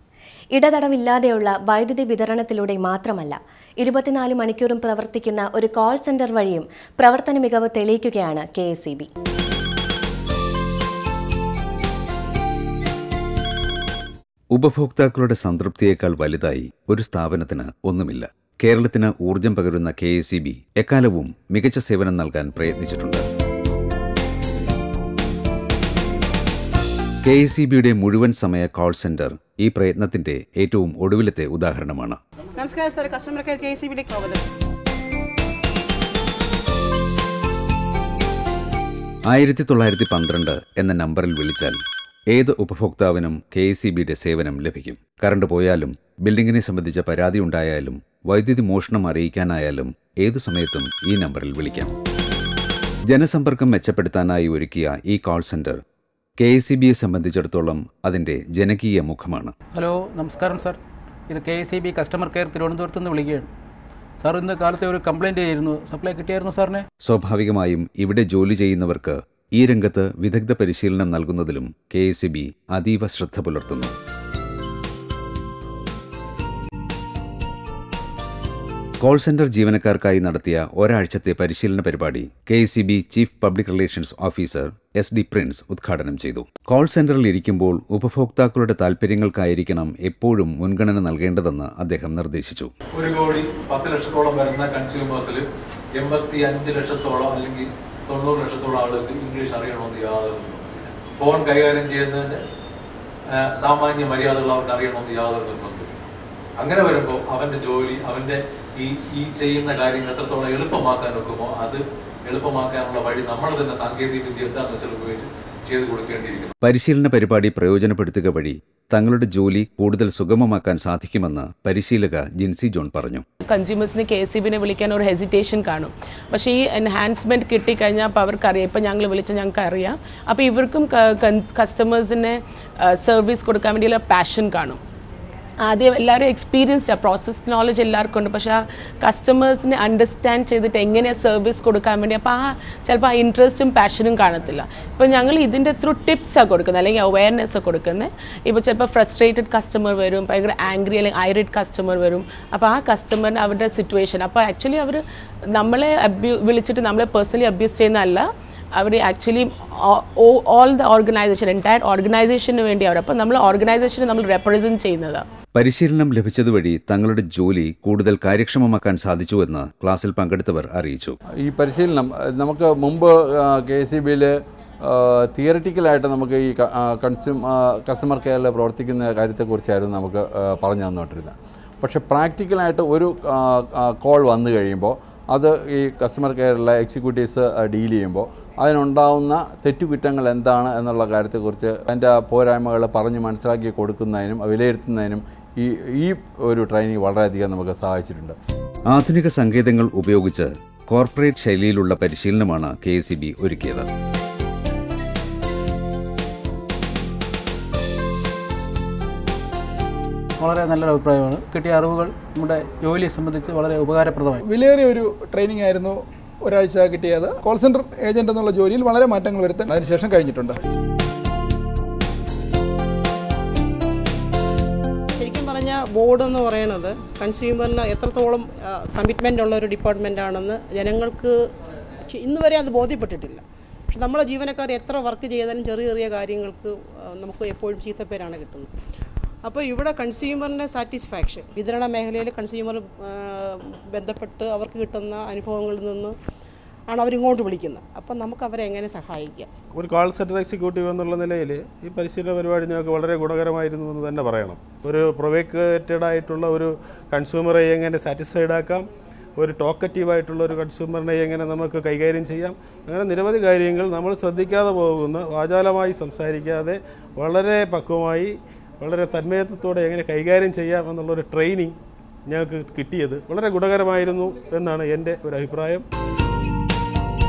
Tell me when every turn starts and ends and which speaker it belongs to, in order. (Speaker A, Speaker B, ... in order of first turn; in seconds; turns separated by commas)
Speaker A: 0.5-9.1, Speaker B: 14.5-23.2, Speaker B: 27.2-32.2, Speaker C: 32.6-34.4, Speaker B: 39.3-41.8, Speaker B: 42.3-51.9, Speaker B: 53.1-55.8, Speaker B: 56.4-59.5, Speaker D: 59.7-63.5, Speaker D: 64.2-66.8, Speaker B: 67.0-73.9, Speaker B: 79.0-92.7, Speaker E: 93.0-102.4, Speaker E: 103.3-105.9, Speaker E: 106.6-116.5, Speaker B: 116.6-123.2, Speaker F: 123.5-134.8, Speaker F: 135.6-155.0, Speaker F: 155.5-165.2, Speaker B: 165.6-171.2, Speaker G: 171.4-174.3, Speaker G: 174.8-198.4, Speaker B: 198.9-203.9, Speaker D: 210.4-214.5, Speaker H: 214.5-220.5, Speaker C: 225.2-231.4, Speaker C: 232.1-238.7, Speaker C: 239.4-246.2, Speaker C: 246.9-249.5, Speaker I: 249.7-258.9, Speaker I: 259.4-271.8, Speaker I: 272.3-275.8